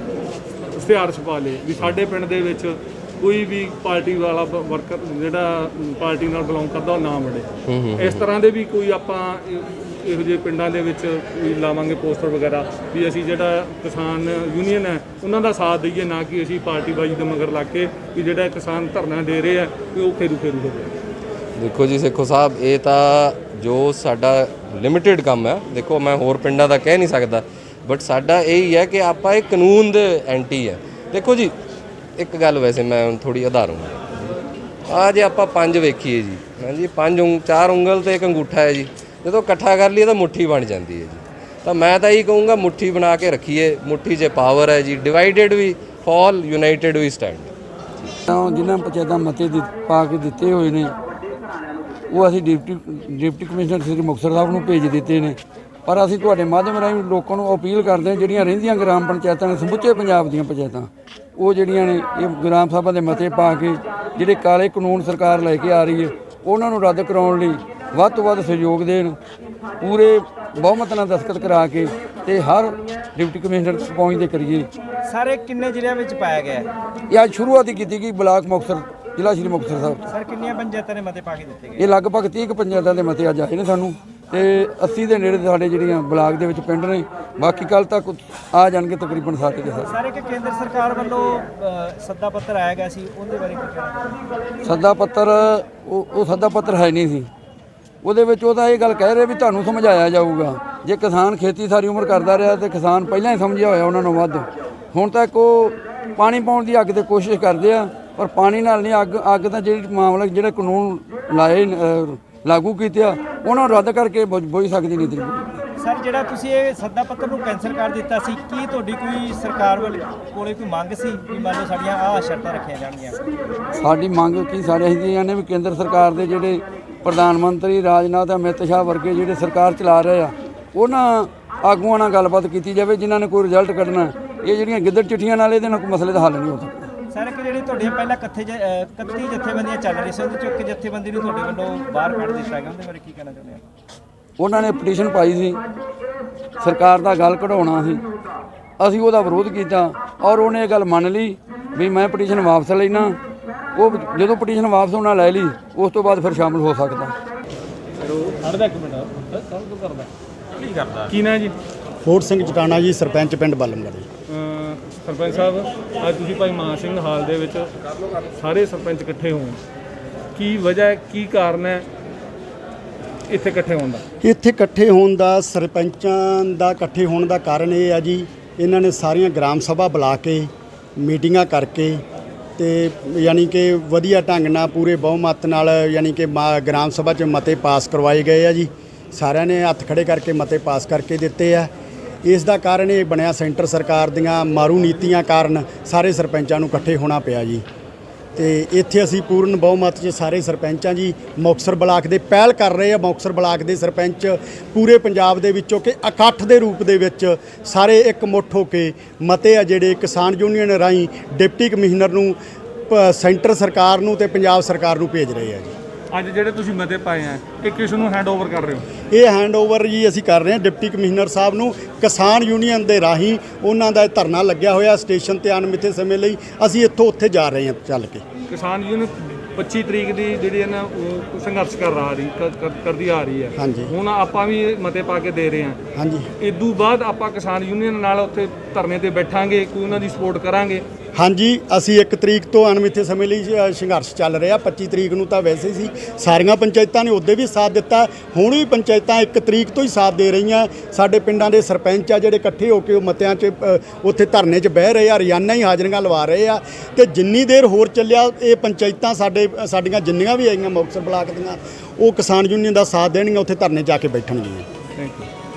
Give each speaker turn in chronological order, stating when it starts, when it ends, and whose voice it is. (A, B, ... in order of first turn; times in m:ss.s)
0:00.7-0:20.9 A
0:07.7-0:08.2 B
0:21.6-0:31.5 B
0:32.2-0:34.4 B
0:34.9-0:47.5 B
0:48.3-0:50.9 C
0:52.1-1:09.2 C
1:09.8-1:14.7 C
1:15.1-1:16.7 D
1:17.1-1:20.0 C
1:20.1-1:21.8 D
1:21.8-1:29.9 C
1:29.9-1:34.2 D
1:34.6-1:37.3 C
1:38.0-1:55.6 C
1:55.8-2:03.3 D
2:03.8-2:16.9 C
2:17.1-2:23.6 D
2:24.4-2:25.6 C
2:26.6-2:28.0 C
2:28.8-2:33.2 C
2:33.7-2:37.1 C
2:38.0-2:40.1 A
2:41.0-2:41.5 A
2:42.0-2:44.1 E
2:44.3-2:47.7 A
2:48.4-2:49.6 A
2:50.3-2:51.8 A
2:53.3-2:54.0 A
2:54.2-3:02.0 E
3:02.6-3:11.7 E
3:12.2-3:17.6 E
3:18.4-3:32.4 E
3:32.9-3:35.7 E
3:36.1-3:38.8 A
3:39.1-3:48.2 E
3:48.5-3:55.8 A
3:53.6-3:53.9 E
3:56.0-3:56.3 E
3:56.4-4:00.8 A
4:01.2-4:24.6 E
4:25.0-4:25.3 A